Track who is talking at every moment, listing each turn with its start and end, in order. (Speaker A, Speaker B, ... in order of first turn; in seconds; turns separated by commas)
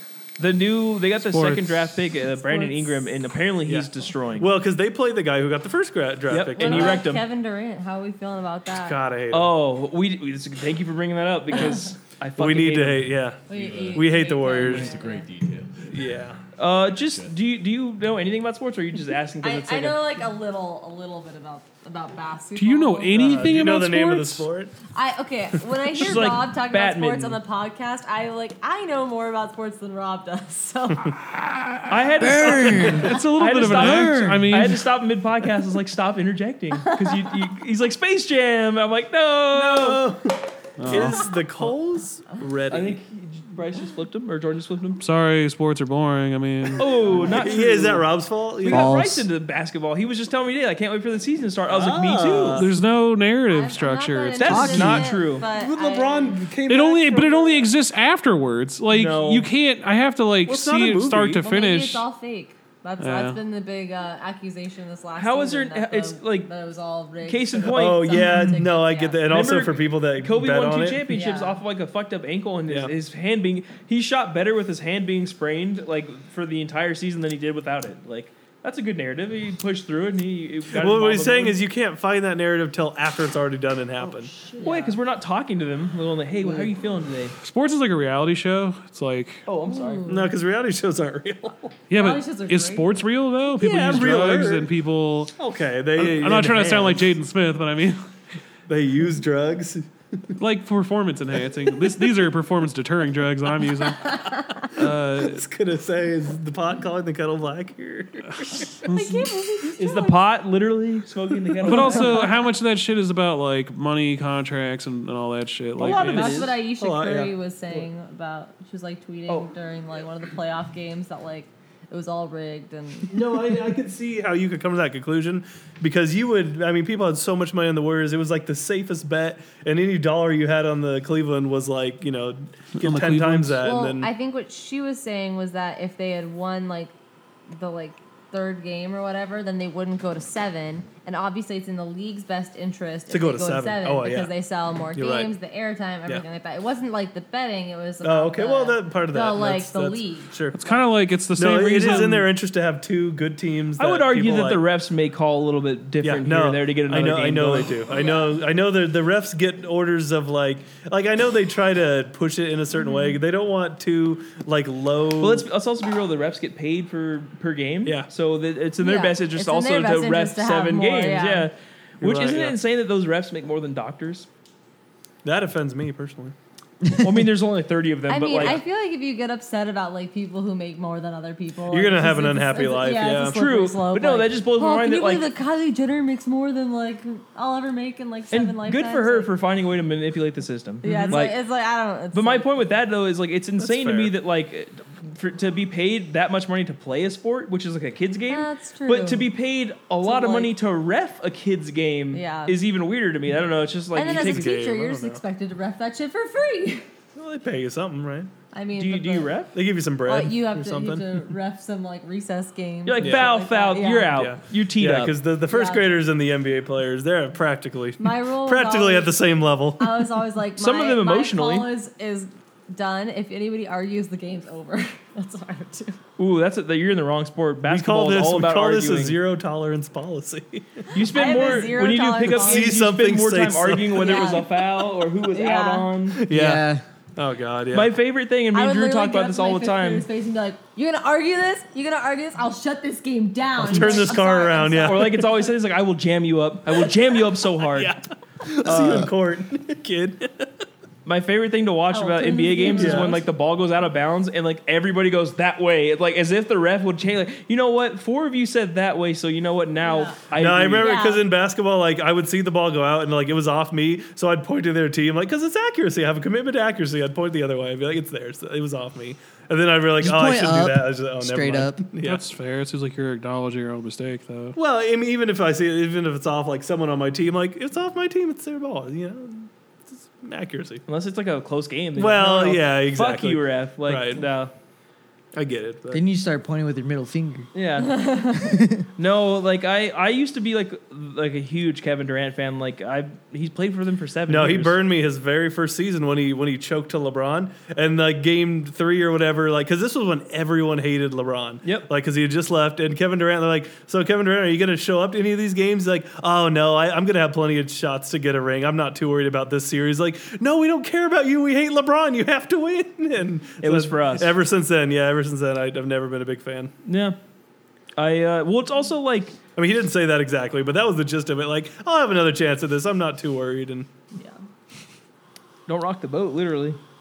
Speaker A: 0.4-4.5, Speaker B: 1.3-1.9, Speaker C: 2.2-3.0, Speaker D: 3.7-7.0, Speaker A: 6.3-7.2, Speaker C: 6.6-9.0, Speaker D: 8.8-9.5, Speaker A: 9.3-13.1, Speaker C: 11.5-11.8, Speaker D: 12.4-14.9, Speaker C: 13.5-15.3, Speaker E: 13.5-15.9, Speaker D: 15.9-16.4, Speaker A: 16.6-20.0, Speaker E: 16.6-17.3, Speaker C: 19.4-23.5, Speaker B: 22.6-24.5, Speaker D: 23.1-24.7, Speaker C: 24.9-31.1, Speaker A: 25.9-27.4, Speaker B: 31.2-34.9, Speaker A: 31.9-40.0, Speaker F: 32.2-33.1, Speaker F: 33.8-34.4, Speaker C: 36.8-37.3, Speaker D: 39.5-43.0, Speaker B: 40.8-41.4, Speaker A: 42.7-45.0, Speaker B: 45.0-47.2, Speaker A: 46.8-48.1, Speaker D: 47.1-49.0, Speaker A: 48.6-52.7, Speaker F: 48.7-49.3, Speaker D: 51.7-52.8, Speaker B: 52.5-55.0, Speaker C: 53.5-56.4, Speaker A: 54.4-55.5, Speaker F: 54.5-55.1, Speaker D: 55.4-57.7, Speaker B: 56.7-62.0, Speaker A: 58.9-59.5, Speaker D: 60.5-61.4, Speaker C: 61.4-69.3, Speaker B: 63.0-63.4, Speaker A: 65.2-66.5, Speaker A: 67.2-68.6, Speaker D: 67.6-71.1, Speaker A: 69.2-81.6, Speaker C: 71.1-71.6, Speaker D: 72.7-72.9, Speaker D: 80.7-84.3, Speaker C: 84.4-85.0, Speaker A: 84.6-87.3, Speaker B: 87.4-89.4, Speaker A: 89.5-90.2, Speaker C: 89.7-90.3, Speaker D: 90.1-91.8, Speaker B: 91.9-95.3, Speaker C: 91.9-93.0, Speaker D: 93.6-94.7, Speaker D: 95.3-97.2, Speaker B: 96.0-98.0, Speaker D: 98.7-100.3, Speaker B: 100.4-105.4, Speaker D: 104.8-108.7, Speaker B: 108.7-109.3, Speaker C: 108.8-110.2, Speaker A: 109.8-112.3, Speaker B: 111.6-116.5, Speaker D: 111.7-111.9, Speaker C: 111.8-112.2, Speaker A: 115.8-116.5, Speaker C: 115.9-123.3, Speaker D: 116.7-117.9, Speaker D: 123.1-134.1, Speaker B: 132.8-133.6, Speaker C: 133.6-136.9, Speaker C: 137.5-150.7, Speaker D: 143.1-144.3, Speaker D: 144.9-145.3, Speaker D: 148.0-150.6, Speaker B: 150.5-152.3, Speaker D: 151.3-154.6, Speaker A: 153.8-157.8, Speaker D: 156.0-165.4, Speaker C: 157.9-158.4, Speaker C: 162.8-163.2, Speaker A: 165.2-174.3, Speaker C: 168.8-171.5, Speaker D: 172.0-172.6, Speaker D: 175.2-176.3, Speaker A: 176.9-178.6, Speaker C: 178.1-189.3, Speaker D: 181.7-183.5, Speaker A: 183.3-185.3, Speaker A: 188.3-191.4, Speaker C: 190.8-192.5, Speaker D: 190.8-191.2, Speaker A: 192.1-204.5, Speaker D: 193.6-194.1, Speaker C: 198.3-199.3, Speaker C: 200.0-200.5, Speaker C: 202.1-202.6, Speaker C: 203.9-206.8, Speaker D: 204.0-205.2, Speaker D: 207.1-208.3, Speaker C: 208.5-209.4, Speaker A: 208.8-209.5, Speaker D: 209.5-211.2, Speaker C: 210.1-214.3, Speaker A: 212.8-215.1, Speaker D: 213.0-213.3, Speaker D: 214.1-220.0, Speaker C: 215.5-215.9, Speaker C: 218.0-219.2, Speaker C: 219.8-226.0, Speaker A: 220.6-221.7, Speaker A: 226.2-229.2, Speaker D: 227.7-230.9, Speaker A: 230.9-236.2, Speaker C: 230.9-232.7, Speaker D: 231.5-234.4, Speaker C: 233.9-235.9, Speaker D: 236.1-237.9, Speaker F: 236.3-236.8, Speaker A: 237.7-240.1, Speaker C: 238.5-245.2, Speaker D: 243.6-245.2, Speaker A: 244.8-247.9, Speaker D: 247.7-250.5, Speaker A: 248.6-249.1, Speaker A: 251.0-260.9, Speaker C: 251.9-253.2, Speaker D: 252.7-253.1, Speaker C: 259.8-260.2, Speaker D: 260.3-272.2, Speaker C: 260.8-261.2, Speaker F: 270.0-271.8, Speaker B: 272.0-274.6, Speaker D: 274.6-280.8, Speaker A: 280.9-284.5, Speaker D: 281.9-284.2, Speaker D: 285.3-286.0, Speaker F: 285.9-287.5, Speaker A: 287.5-288.1, Speaker C: 287.9-288.5, Speaker F: 288.3-288.8, Speaker A: 288.9-294.8, Speaker D: 294.3-316.7, Speaker A: 313.6-314.3, Speaker A: 316.8-317.2, Speaker A: 318.0-319.4, Speaker D: 319.6-323.9, Speaker C: 324.1-324.4, Speaker A: 325.7-326.8